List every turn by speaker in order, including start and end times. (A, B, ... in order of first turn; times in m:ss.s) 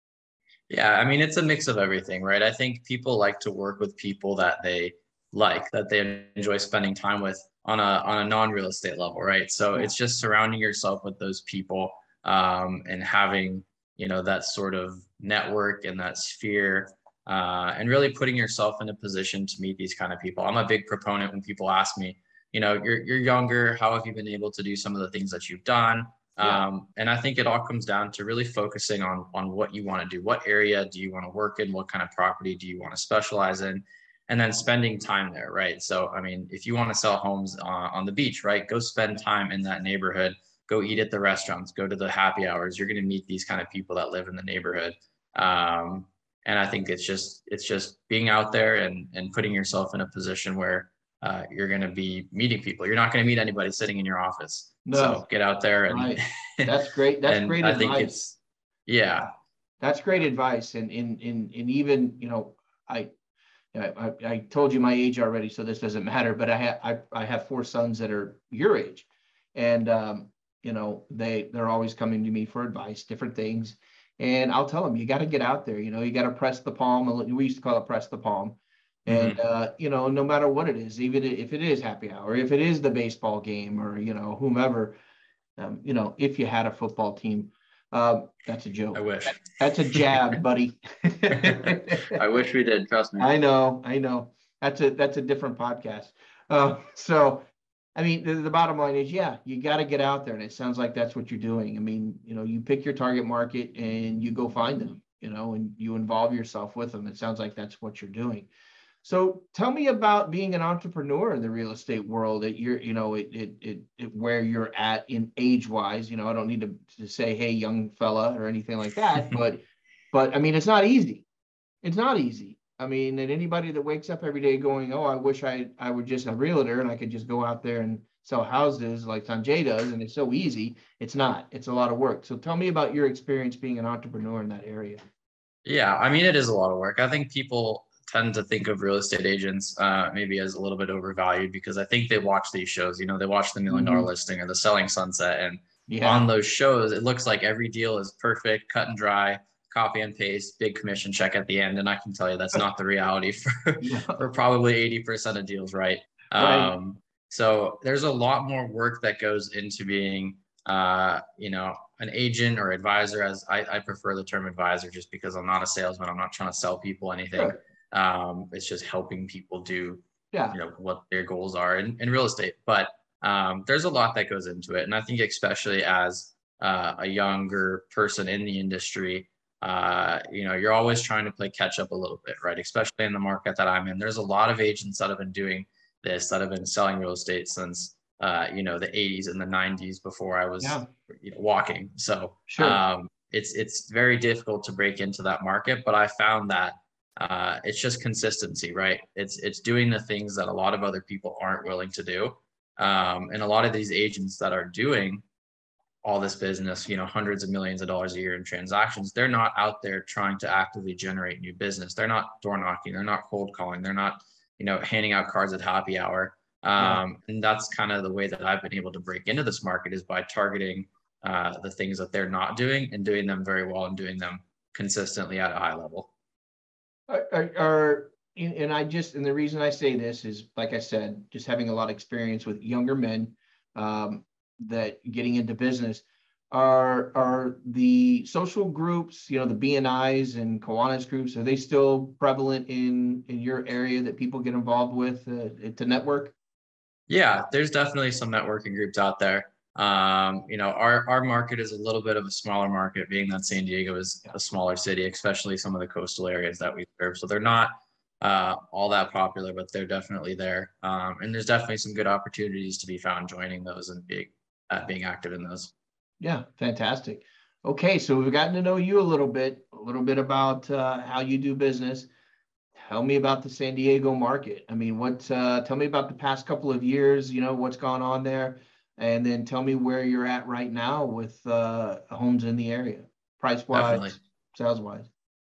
0:00.7-0:56.7 A
0:26.4-0:26.6 B
0:54.8-0:55.2 B
0:55.9-0:58.1 B
0:57.2-0:59.3 A
0:59.8-1:03.1 B
1:03.7-1:25.0 B
1:19.1-1:19.4 A
1:25.6-1:32.2 B
1:28.9-1:29.4 A
1:31.4-1:33.3 A
1:33.2-1:37.4 B
1:38.0-1:48.5 B
1:49.0-2:01.2 B
2:01.8-2:15.0 B
2:15.6-3:25.2 A
2:23.7-2:24.1 B
2:25.9-2:26.3 B
2:33.8-2:34.2 B
2:36.4-2:36.7 B
2:50.3-2:50.6 B
3:10.6-3:10.9 B
3:12.5-3:12.8 B
3:26.0-3:46.1 A
3:36.8-3:37.0 B
3:47.1-4:06.3 B
4:07.1-4:25.7 A
4:26.2-4:32.1 B
4:32.8-4:45.1 B
4:43.7-4:44.2 A